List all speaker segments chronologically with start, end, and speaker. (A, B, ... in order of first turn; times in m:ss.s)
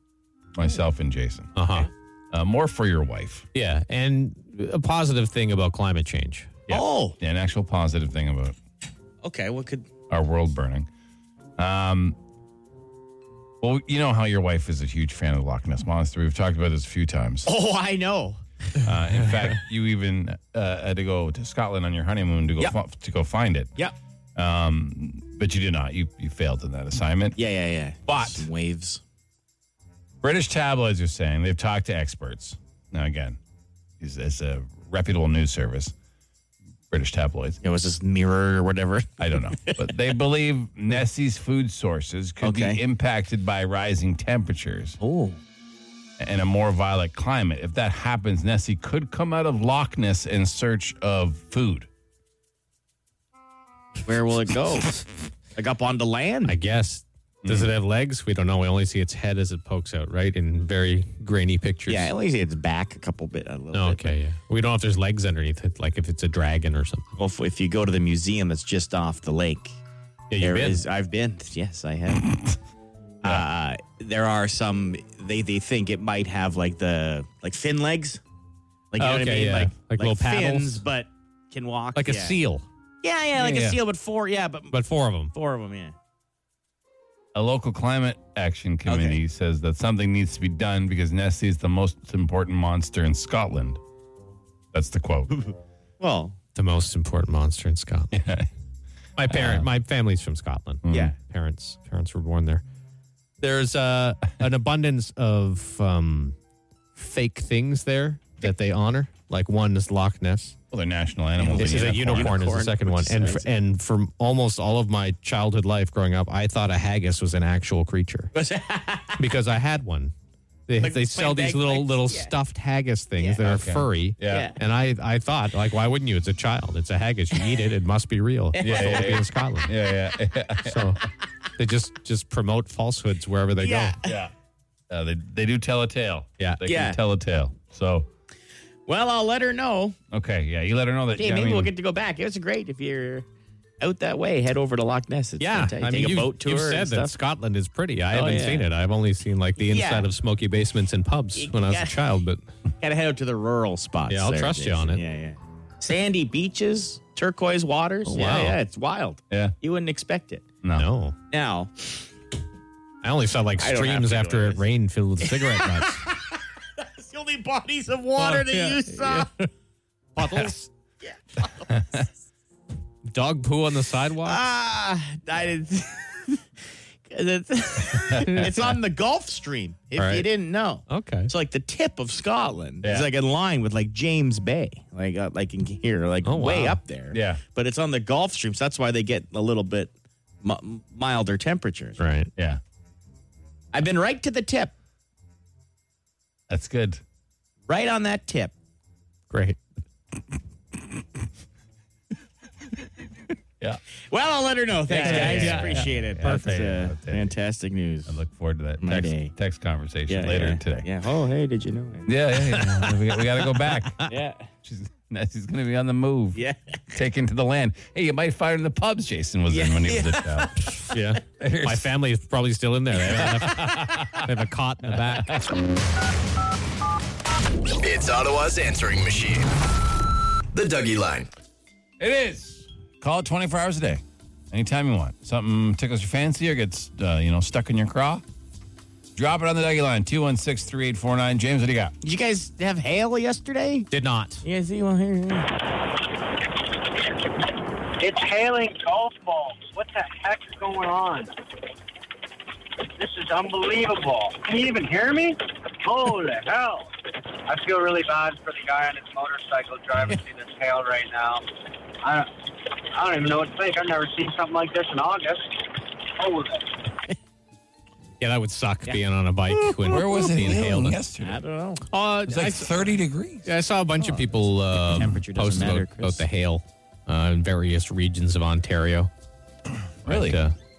0:00.6-0:01.6 A
0:01.6-0:01.9 B
0:02.3-0:03.5 A
0:03.5-0:06.6 B
0:06.7-0:08.6 A
0:06.7-0:07.2 C
0:09.2-0:09.9 C
0:10.1-0:10.9 A
0:11.6-0:12.2 A
0:13.6-0:17.5 A
0:17.4-0:18.4 C
0:18.8-0:23.7 A
0:24.4-0:27.4 A
0:27.4-0:29.0 C
0:28.1-0:28.5 A
0:30.2-0:33.4 A
0:34.0-0:35.9 A
0:36.9-0:37.6 A
0:37.6-0:39.9 C
0:39.2-0:45.0 A
0:42.4-0:42.8 C
0:45.0-0:45.4 C
0:46.2-0:51.9 A
0:54.0-0:55.0 C
0:55.6-0:56.6 C
0:56.4-1:02.1 B
1:01.9-1:04.2 C
1:03.7-1:07.1 B
1:07.2-1:09.7 C
1:10.3-1:10.8 B
1:10.4-1:12.4 C
1:13.2-1:18.2 C
1:18.9-1:22.4 C
1:19.0-1:20.8 B
1:22.0-1:22.7 B
1:23.0-1:24.8 C
1:23.4-1:23.8 A
1:24.7-1:25.3 B
1:25.3-1:26.0 C
1:27.3-1:33.8 A
1:28.9-1:29.2 C
1:34.7-1:35.4 A
1:36.0-1:36.4 C
1:36.6-1:38.1 B
1:38.1-1:38.5 A
1:39.2-1:42.6 B
1:39.3-1:39.7 A
1:40.8-1:41.1 A
1:40.9-1:41.1 C
1:43.4-1:46.4 B
1:47.0-1:50.6 B
1:50.7-1:52.6 A
1:51.4-1:53.6 C
1:51.5-1:58.3 B
1:58.3-1:59.2 C
1:59.2-2:00.1 B
2:00.7-2:09.7 B
2:00.8-2:02.4 C
2:03.2-2:03.4 C
2:03.4-2:04.5 A
2:04.3-2:04.6 C
2:08.5-2:09.2 C
2:08.6-2:11.0 A
2:10.7-2:11.0 B
2:11.6-2:14.0 B
2:13.6-2:14.2 C
2:14.0-2:14.3 A
2:14.9-2:18.1 A
2:16.6-2:17.0 C
2:18.9-2:20.0 C
2:20.1-2:21.7 A
2:21.2-2:23.3 C
2:23.8-2:27.2 C
2:25.4-2:32.4 B
2:28.1-2:28.7 C
2:29.6-2:30.1 C
2:31.4-2:32.0 C
2:32.8-2:40.5 C
2:34.1-2:35.0 B
2:38.0-2:38.6 B
2:40.8-2:41.2 B
2:41.3-2:42.1 C
2:43.0-2:46.0 B
2:43.6-2:44.6 C
2:45.2-2:49.3 C
2:48.2-2:49.5 B
2:50.2-2:50.7 B
2:51.0-2:51.7 C
2:51.7-2:52.0 A
2:53.1-2:54.4 B
2:54.2-2:56.4 C
2:57.1-3:12.0 C
2:58.2-2:58.8 B
3:00.0-3:00.3 B
3:00.9-3:01.3 B
3:02.8-3:03.1 A
3:06.2-3:06.8 B
3:07.1-3:07.4 A
3:12.0-3:12.3 B
3:12.4-3:12.6 A
3:13.7-3:14.7 C
3:16.5-3:17.0 A
3:17.7-3:18.5 C
3:19.3-3:19.6 B
3:24.1-3:28.2 C
3:24.9-3:26.4 B
3:25.0-3:27.3 A
3:28.1-3:30.9 A
3:28.8-3:29.3 C
3:30.1-3:32.1 C
3:32.1-3:34.1 A
3:34.1-3:34.5 C
3:34.6-3:36.4 A
3:36.3-3:36.8 C
3:36.9-3:41.9 A
3:39.5-3:40.5 C
3:40.9-3:45.4 B
3:43.1-3:44.3 A
3:45.1-3:45.5 A
3:47.8-3:49.5 D
3:50.5-3:51.3 D
3:52.0-3:58.2 A
3:59.2-4:01.9 A
4:02.0-4:03.9 C
4:03.9-4:04.4 B
4:04.4-4:05.5 C
4:08.0-4:11.3 E
4:13.0-4:16.9 E
4:17.5-4:21.4 E
4:22.0-4:22.3 E
4:22.9-4:26.8 E
4:28.2-4:31.0 B
4:29.7-4:30.2 C
4:29.8-4:31.4 A
4:31.2-4:31.8 C
4:31.9-4:39.1 B
4:32.3-4:33.5 A
4:34.8-4:36.3 C
4:40.0-4:40.4 A
4:40.1-4:40.6 B